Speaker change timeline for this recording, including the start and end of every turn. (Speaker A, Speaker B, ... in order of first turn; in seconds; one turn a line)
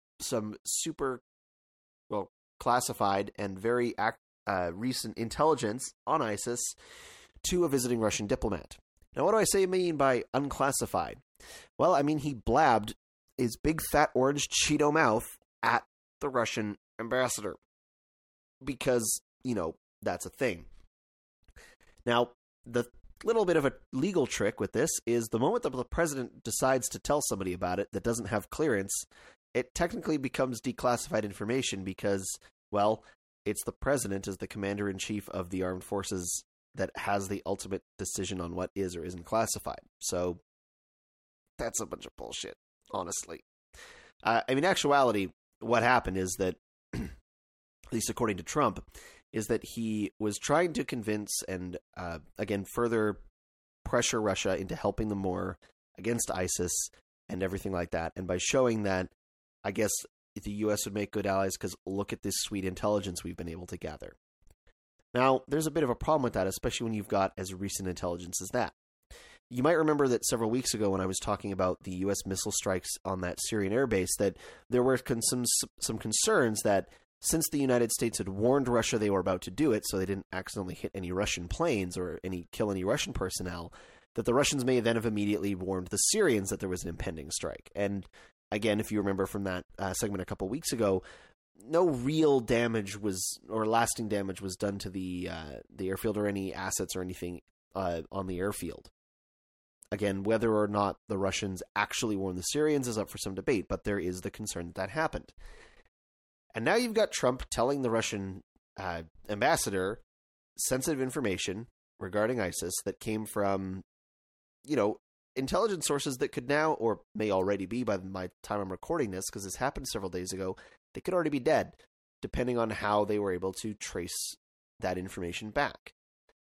Speaker A: 0.2-1.2
Speaker A: 2.1-6.8
Speaker A: 7.4-11.2
Speaker A: 11.8-17.6
Speaker A: 18.6-20.7
Speaker A: 22.1-40.4
Speaker A: 41.6-43.5
Speaker A: 44.2-47.1
Speaker A: 47.9-53.2
Speaker A: 53.9-59.1
Speaker A: 59.6-64.2
Speaker A: 65.1-68.7
Speaker A: 69.5-91.0
Speaker A: 91.6-98.9
Speaker A: 99.9-105.3
Speaker A: 106.5-110.0
Speaker A: 110.6-113.8
Speaker A: 114.7-125.9